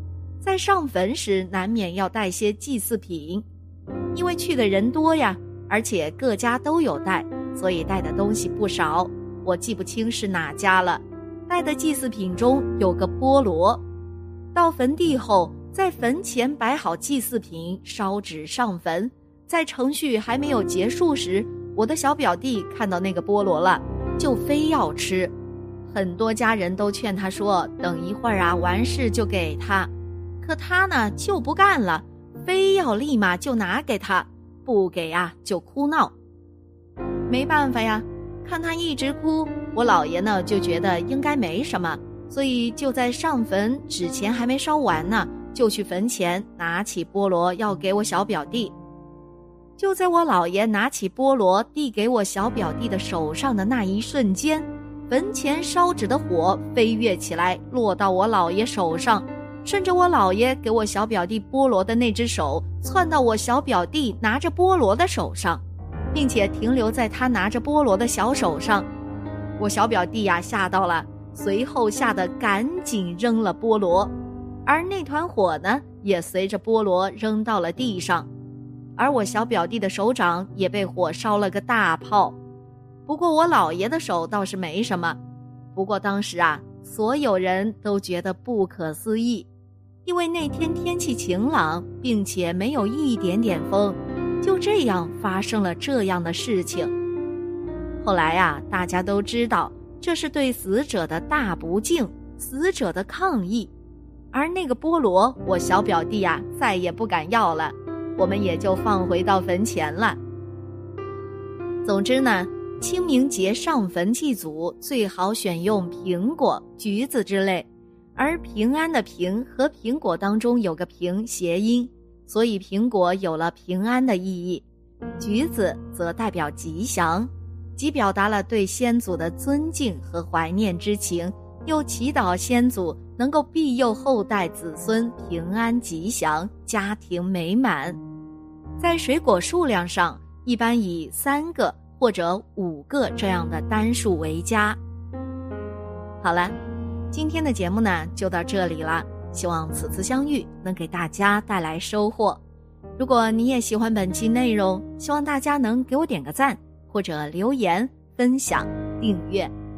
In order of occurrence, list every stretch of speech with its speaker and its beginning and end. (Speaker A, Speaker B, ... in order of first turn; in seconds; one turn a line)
Speaker A: 0.4-3.4
Speaker A: 4.1-13.8
Speaker A: 14.5-25.3
Speaker A: 25.9-36.1
Speaker A: 37.3-48.7
Speaker A: 49.8-68.9
Speaker A: 69.6-74.1
Speaker A: 74.7-78.3
Speaker A: 79.0-82.4
Speaker A: 83.0-85.2
Speaker A: 85.7-89.5
Speaker A: 90.0-96.9
Speaker A: 98.0-103.7
Speaker A: 104.3-110.2
Speaker A: 111.8-124.6
Speaker A: 125.2-138.0
Speaker A: 138.8-144.8
Speaker A: 146.2-146.5
Speaker A: 147.1-152.4
Speaker A: 153.0-159.5